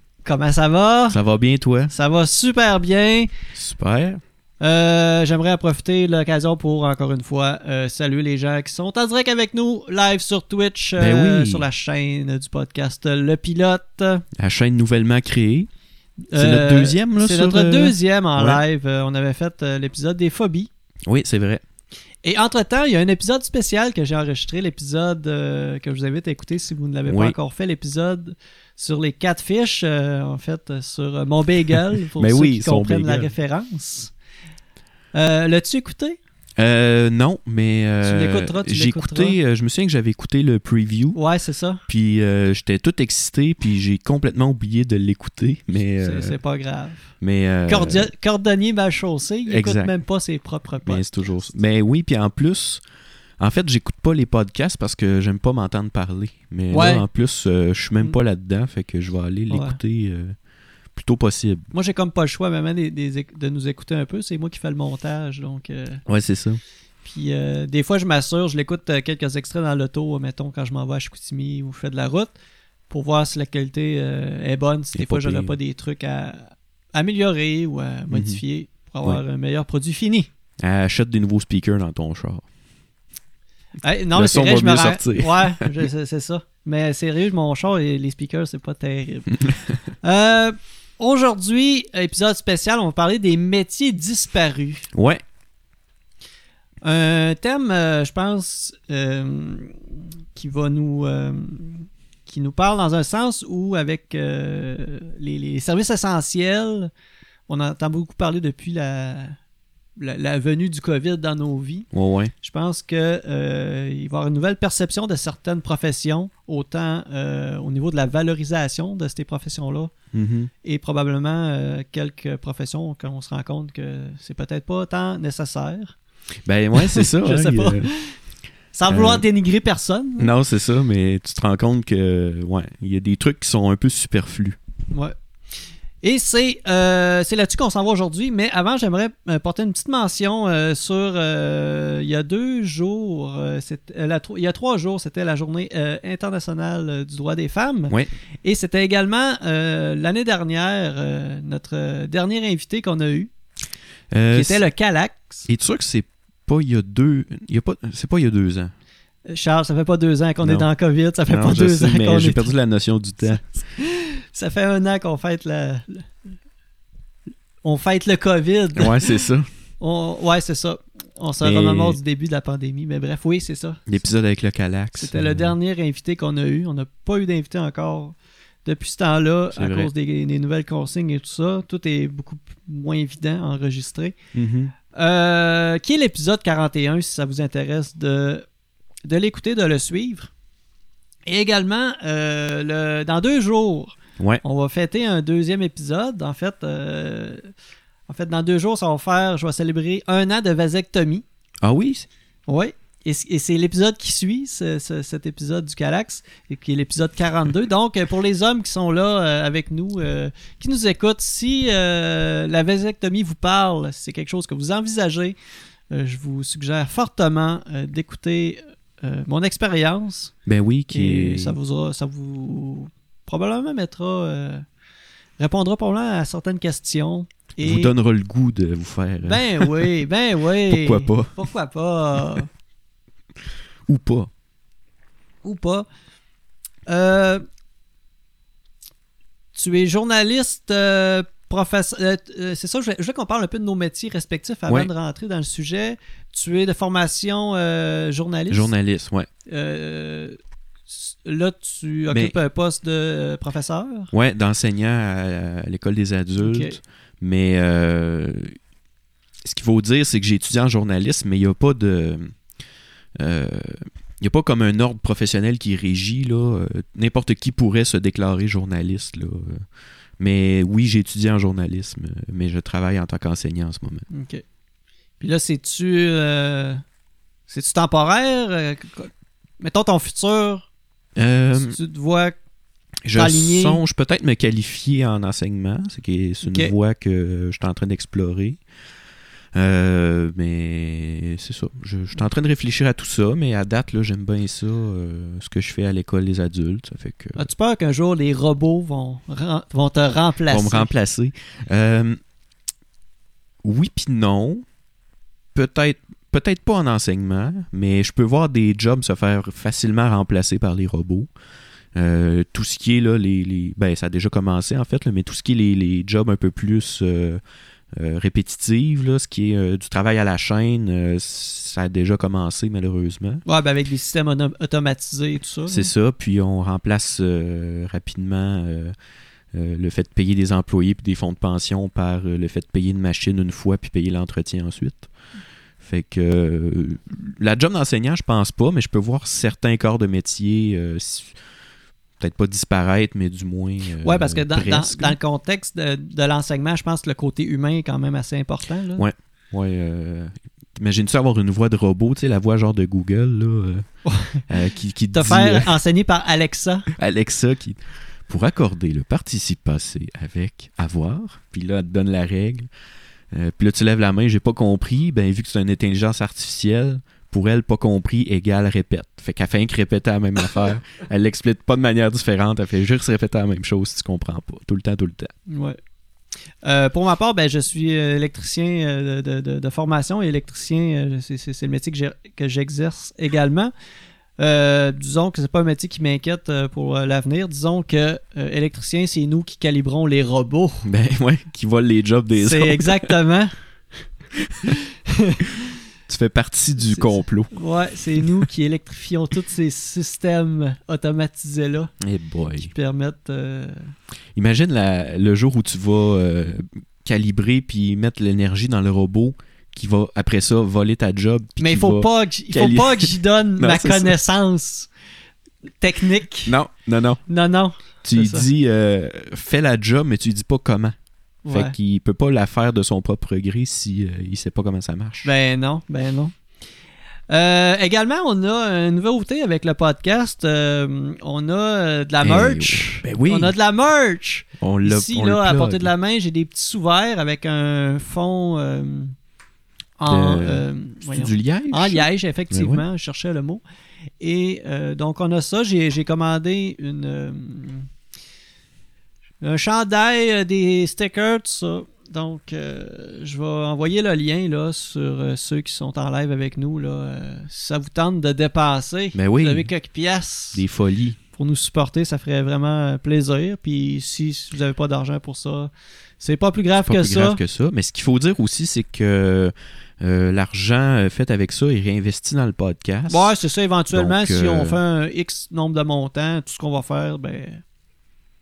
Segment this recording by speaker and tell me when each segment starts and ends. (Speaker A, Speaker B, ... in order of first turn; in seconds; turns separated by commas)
Speaker A: 0.2-1.2, Speaker B: 1.1-1.9, Speaker A: 1.9-3.3, Speaker B: 3.5-4.2, Speaker A: 4.6-14.2, Speaker B: 11.0-11.7, Speaker B: 14.4-15.7, Speaker A: 16.3-20.7, Speaker B: 16.4-18.6, Speaker B: 21.1-21.6, Speaker A: 22.2-34.1, Speaker B: 27.1-27.4, Speaker B: 32.2-33.3, Speaker A: 35.1-36.2, Speaker B: 36.6-41.2, Speaker A: 38.0-39.4, Speaker A: 41.1-41.8, Speaker B: 41.9-46.4, Speaker A: 46.0-47.1, Speaker B: 47.2-48.1, Speaker A: 47.7-51.5, Speaker B: 49.5-49.9, Speaker B: 50.9-52.8, Speaker B: 53.4-60.4, Speaker A: 56.7-57.0, Speaker A: 59.5-59.8, Speaker B: 61.0-61.6, Speaker A: 61.7-66.0, Speaker B: 66.1-66.6, Speaker A: 67.0-72.3, Speaker A: 72.9-80.3, Speaker B: 75.0-75.5, Speaker B: 78.1-78.4, Speaker B: 80.6-82.5, Speaker A: 83.8-89.4, Speaker B: 84.2-85.9, Speaker A: 90.0-94.9, Speaker B: 94.9-95.2, Speaker A: 96.8-106.9, Speaker A: 107.5-109.4, Speaker A: 110.0-111.9, Speaker B: 111.9-112.3, Speaker A: 112.4-119.9, Speaker B: 120.1-120.5, Speaker A: 120.6-126.0, Speaker B: 126.5-127.9, Speaker A: 126.8-128.2, Speaker A: 128.7-130.3, Speaker B: 128.9-129.2, Speaker B: 130.2-134.6, Speaker A: 136.0-147.9, Speaker A: 148.4-153.3, Speaker B: 154.1-154.6, Speaker A: 154.3-155.5, Speaker B: 155.5-158.7, Speaker A: 159.3-162.5, Speaker B: 160.4-160.7, Speaker B: 161.3-163.4, Speaker A: 163.3-166.1, Speaker A: 167.6-169.1, Speaker B: 168.8-169.5, Speaker A: 169.8-173.9, Speaker B: 171.4-172.0, Speaker B: 173.9-175.6, Speaker A: 175.0-184.2, Speaker B: 179.5-179.9, Speaker B: 184.3-184.7, Speaker A: 184.9-188.4, Speaker A: 189.1-190.3, Speaker A: 191.3-197.5, Speaker A: 198.1-201.2, Speaker B: 201.6-202.1, Speaker A: 202.5-215.3, Speaker A: 215.9-220.3, Speaker B: 220.5-221.6, Speaker A: 220.9-224.6, Speaker A: 225.4-227.9, Speaker B: 227.6-229.9, Speaker A: 229.2-232.5, Speaker B: 230.7-231.5, Speaker B: 233.9-234.3, Speaker A: 235.4-235.9, Speaker A: 236.9-237.4, Speaker A: 239.6-248.7, Speaker B: 248.5-249.3, Speaker A: 249.5-250.4, Speaker A: 250.9-254.1, Speaker B: 252.1-252.4, Speaker B: 254.1-258.6, Speaker A: 256.4-256.8, Speaker B: 259.4-262.3, Speaker B: 263.2-269.6, Speaker B: 270.2-274.1, Speaker A: 274.1-274.4, Speaker A: 275.2-276.8, Speaker A: 277.5-280.7, Speaker B: 281.2-281.8, Speaker A: 281.6-282.4, Speaker B: 283.1-288.6, Speaker A: 283.1-283.8, Speaker A: 286.4-286.7, Speaker B: 289.6-297.5, Speaker A: 297.4-300.9, Speaker B: 300.5-302.2, Speaker B: 303.6-304.6, Speaker B: 305.6-311.3, Speaker B: 311.9-317.4, Speaker B: 317.9-323.4, Speaker A: 323.5-325.9, Speaker B: 325.7-328.9, Speaker B: 329.5-335.1, Speaker B: 335.8-341.3, Speaker B: 342.2-345.2, Speaker A: 344.0-349.1, Speaker B: 349.0-353.9, Speaker A: 354.1-354.4, Speaker B: 354.5-355.8, Speaker A: 355.1-356.9, Speaker B: 357.0-362.7, Speaker B: 363.3-375.3, Speaker A: 375.5-375.8, Speaker A: 376.6-383.7, Speaker A: 384.4-390.9, Speaker B: 390.8-393.1, Speaker A: 392.4-393.5, Speaker B: 394.4-394.7, Speaker A: 394.7-395.6, Speaker B: 396.1-397.5, Speaker A: 396.8-401.9, Speaker B: 402.0-402.7, Speaker A: 402.6-403.9, Speaker B: 404.4-414.1, Speaker A: 411.6-414.9, Speaker A: 415.8-416.6, Speaker B: 416.5-417.2, Speaker A: 417.3-418.5, Speaker B: 418.0-420.9, Speaker A: 421.4-421.7, Speaker B: 421.5-425.3, Speaker A: 425.2-426.3, Speaker A: 427.3-439.1, Speaker B: 432.2-433.5, Speaker B: 434.6-435.9, Speaker A: 440.0-443.6, Speaker B: 440.1-442.8, Speaker A: 444.2-447.9, Speaker A: 449.4-460.6, Speaker B: 459.1-459.7, Speaker B: 460.5-461.2, Speaker A: 461.4-467.4, Speaker B: 466.8-473.3, Speaker A: 473.1-477.6, Speaker B: 473.9-474.8